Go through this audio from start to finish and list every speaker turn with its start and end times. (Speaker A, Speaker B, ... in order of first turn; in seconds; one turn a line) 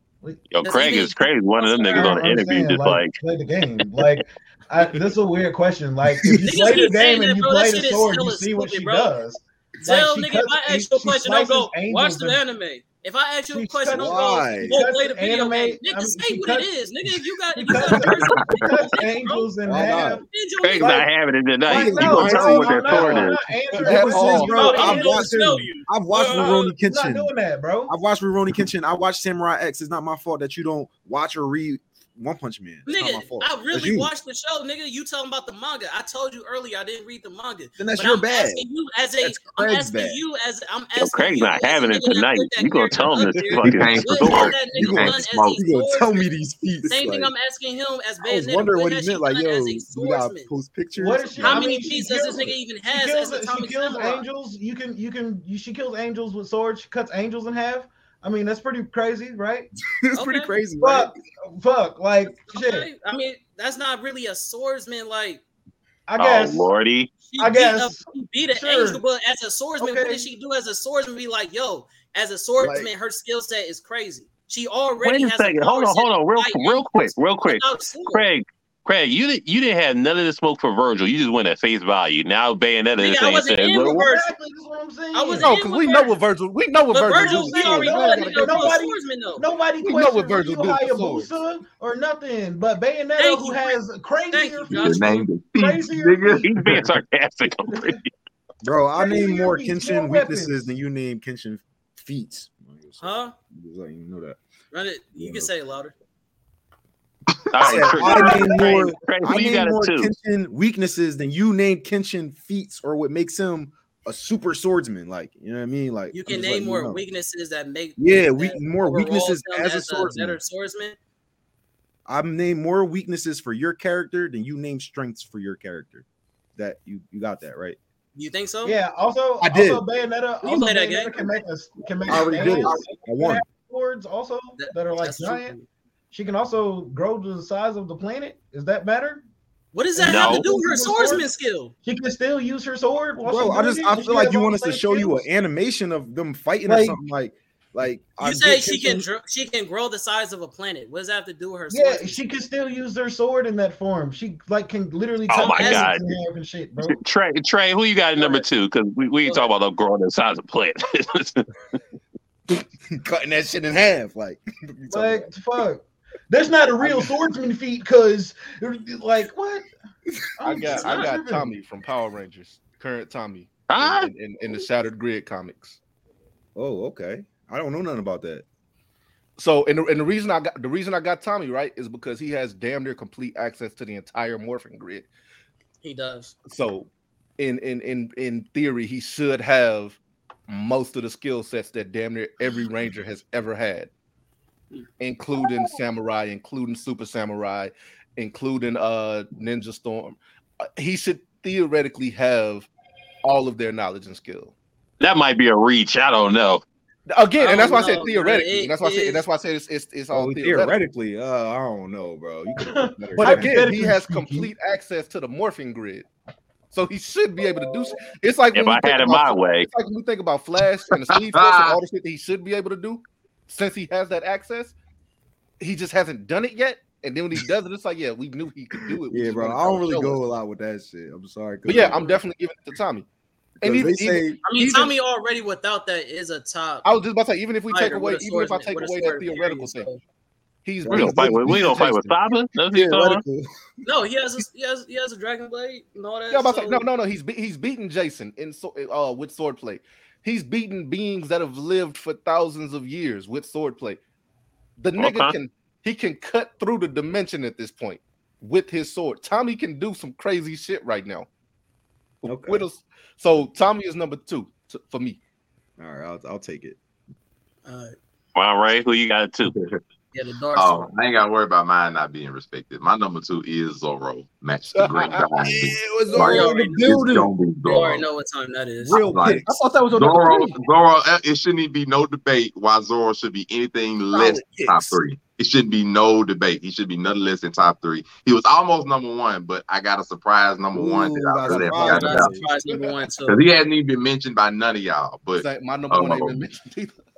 Speaker A: 0.5-3.1
Speaker B: 0.6-2.4
Speaker C: 1.9-12.4
Speaker B: 6.4-9.1
Speaker B: 9.8-19.5
Speaker C: 13.5-16.7
Speaker D: 13.9-14.8
Speaker C: 17.6-20.2
Speaker E: 17.9-18.7
Speaker D: 19.6-20.2
Speaker B: 20.3-21.0
Speaker A: 20.6-23.4
Speaker C: 20.8-21.1
Speaker C: 21.7-25.7
Speaker D: 21.7-27.3
Speaker F: 22.9-24.6
Speaker B: 24.4-26.7
Speaker C: 26.3-27.9
Speaker D: 27.9-34.1
Speaker B: 32.9-46.3
Speaker D: 37.8-38.6
Speaker D: 39.2-40.2
Speaker A: 41.0-44.5
Speaker E: 43.6-45.6
Speaker D: 43.6-44.0
Speaker D: 44.7-47.3
Speaker B: 46.9-50.5
Speaker D: 48.2-51.8
Speaker C: 50.9-59.7
Speaker B: 51.4-54.2
Speaker D: 60.0-61.1
Speaker B: 60.1-60.5
Speaker C: 60.8-62.9
Speaker B: 62.5-65.4
Speaker C: 66.1-66.7
Speaker A: 66.2-67.1
Speaker B: 67.2-78.2
Speaker C: 67.4-69.0
Speaker C: 69.8-70.3
Speaker D: 72.6-72.9
Speaker A: 75.0-84.0
Speaker B: 83.0-84.3
Speaker C: 83.9-85.5
Speaker B: 85.1-86.1
Speaker F: 85.4-88.8
Speaker B: 86.9-89.4
Speaker C: 87.2-96.5
Speaker F: 89.8-91.3
Speaker B: 93.2-93.8
Speaker B: 94.3-95.2
Speaker E: 94.7-96.9
Speaker A: 96.4-98.1
Speaker C: 97.7-98.0
Speaker D: 98.6-104.4
Speaker C: 99.0-100.7
Speaker B: 103.0-103.3
Speaker B: 104.7-105.9
Speaker D: 105.2-105.5
Speaker A: 107.5-110.1
Speaker D: 107.6-117.0
Speaker C: 108.0-108.8
Speaker B: 116.1-121.0
Speaker D: 118.0-120.4
Speaker D: 122.0-126.0
Speaker D: 126.5-127.8
Speaker B: 128.1-128.8
Speaker C: 128.6-135.6
Speaker D: 129.4-129.8
Speaker B: 130.4-131.2
Speaker D: 132.1-133.4
Speaker B: 134.6-135.7
Speaker C: 136.1-139.2
Speaker B: 139.7-141.7
Speaker C: 139.9-141.3
Speaker A: 140.1-140.4
Speaker C: 141.8-145.2
Speaker D: 143.2-149.1
Speaker C: 146.7-147.0
Speaker B: 148.2-152.2
Speaker C: 151.7-157.0
Speaker A: 155.3-156.0
Speaker B: 155.3-155.9
Speaker A: 156.8-161.5
Speaker D: 162.9-165.3
Speaker C: 164.9-169.7
Speaker D: 166.8-167.1
Speaker C: 170.4-171.5
Speaker F: 170.4-175.8
Speaker D: 170.4-171.0
Speaker A: 173.7-174.1
Speaker D: 176.5-178.4
Speaker F: 179.4-185.1
Speaker B: 185.8-186.3
Speaker F: 186.4-193.9
Speaker F: 195.0-202.7
Speaker F: 203.2-204.5
Speaker A: 205.0-206.6
Speaker F: 207.1-210.8
Speaker B: 207.4-209.2
Speaker D: 210.1-213.6
Speaker C: 212.6-214.5
Speaker F: 213.1-216.1
Speaker F: 216.7-224.7
Speaker A: 218.5-219.7
Speaker E: 221.1-221.8
Speaker F: 225.6-230.2
Speaker D: 229.1-232.2
Speaker F: 231.6-233.1
Speaker F: 233.6-234.9
Speaker D: 233.6-234.4
Speaker B: 234.4-236.9
Speaker F: 236.8-239.9
Speaker B: 237.7-240.0
Speaker F: 240.6-242.2
Speaker D: 240.8-241.9
Speaker A: 240.9-243.2
Speaker D: 242.7-243.5
Speaker B: 243.8-246.8
Speaker F: 246.3-254.0
Speaker F: 254.8-261.3
Speaker A: 255.0-255.3
Speaker D: 262.2-262.6
Speaker F: 262.2-265.2
Speaker D: 265.8-266.8
Speaker B: 267.6-267.9
Speaker A: 268.3-269.5
Speaker E: 269.4-269.8
Speaker B: 270.1-270.9
Speaker E: 270.5-278.0
Speaker F: 274.7-277.1
Speaker B: 276.1-276.8
Speaker D: 276.1-277.3
Speaker B: 277.6-279.0
Speaker D: 278.8-279.5
Speaker E: 278.9-292.3
Speaker F: 279.1-280.6
Speaker D: 284.1-285.0
Speaker D: 290.7-292.5
Speaker B: 291.7-293.4
Speaker E: 293.2-296.4
Speaker F: 295.4-297.0